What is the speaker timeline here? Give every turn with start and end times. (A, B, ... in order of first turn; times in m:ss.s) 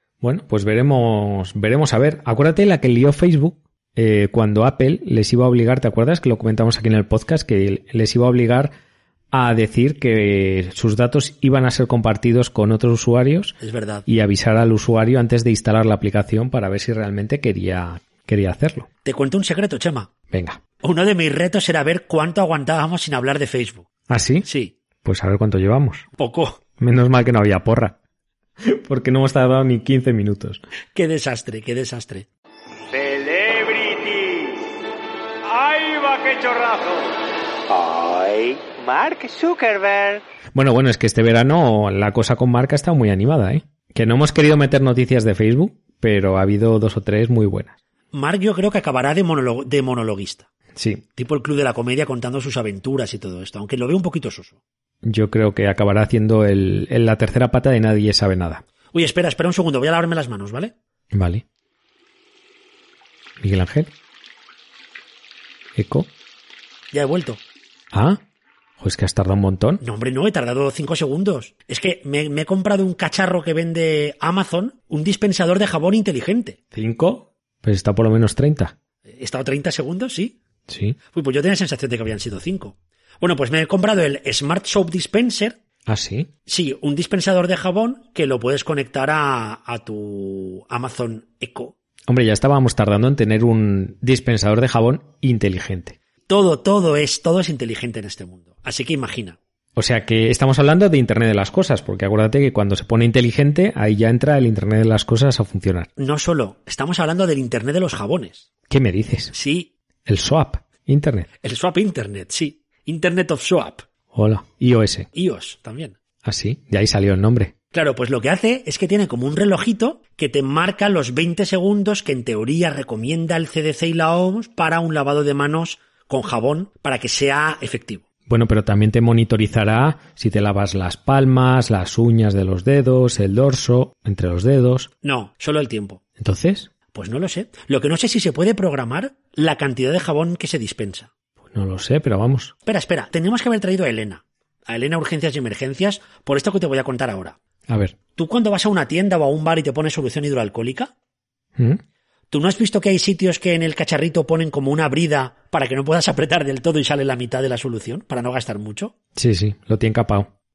0:00.2-0:08.7 A
0:09.3-0:18.9 A
0:13.6-0:14.1 B
0:19.0-0:20.1 B
0:20.3-0:20.6 A
0:20.8-0:23.9 B
0:24.1-0:24.5 A
0:24.4-0:24.7 B
0:25.0-0:26.1 A
0:26.2-0:26.6 B
0:26.8-0:28.0 A
0:28.6-0:30.6 A
0:31.0-0:32.3 B
0:32.9-0:34.6 C
0:35.5-0:37.1 C
0:37.7-0:40.2 C
0:40.5-0:47.8 A
0:48.1-0:50.5 B
0:50.8-0:51.0 A
0:51.2-0:54.6 B
0:55.0-0:58.6 A
0:58.9-1:00.7 B
1:01.1-1:01.4 A
1:03.4-1:03.9 A
1:05.8-1:06.1 A
1:06.9-1:07.4 B
1:07.9-1:08.2 A
1:08.8-1:09.8 A
1:09.8-1:16.6 B
1:16.7-1:18.7 A
1:19.1-1:20.4 B
1:20.7-1:21.0 A
1:21.1-1:25.6 B
1:25.9-1:26.3 A
1:26.5-1:31.7 B
1:32.1-1:36.0 A
1:36.3-1:39.4 B
1:39.8-1:45.9 A
1:46.0-1:48.5 B
1:48.7-1:49.3 A
1:49.3-1:49.7 B
1:50.1-1:51.3 A
1:51.4-1:53.8 B
1:54.1-1:55.1 A
1:55.1-1:56.0 B
1:56.2-1:57.5 A
1:57.7-2:08.0 B
2:08.3-2:14.9 A
2:15.0-2:16.0 B
2:16.2-2:16.7 A
2:16.9-2:21.1 B
2:21.5-2:22.5 A
2:22.7-2:27.4 B
2:27.7-2:28.0 A
2:28.2-2:30.9 B
2:32.3-2:38.9 B
2:39.2-2:40.3 A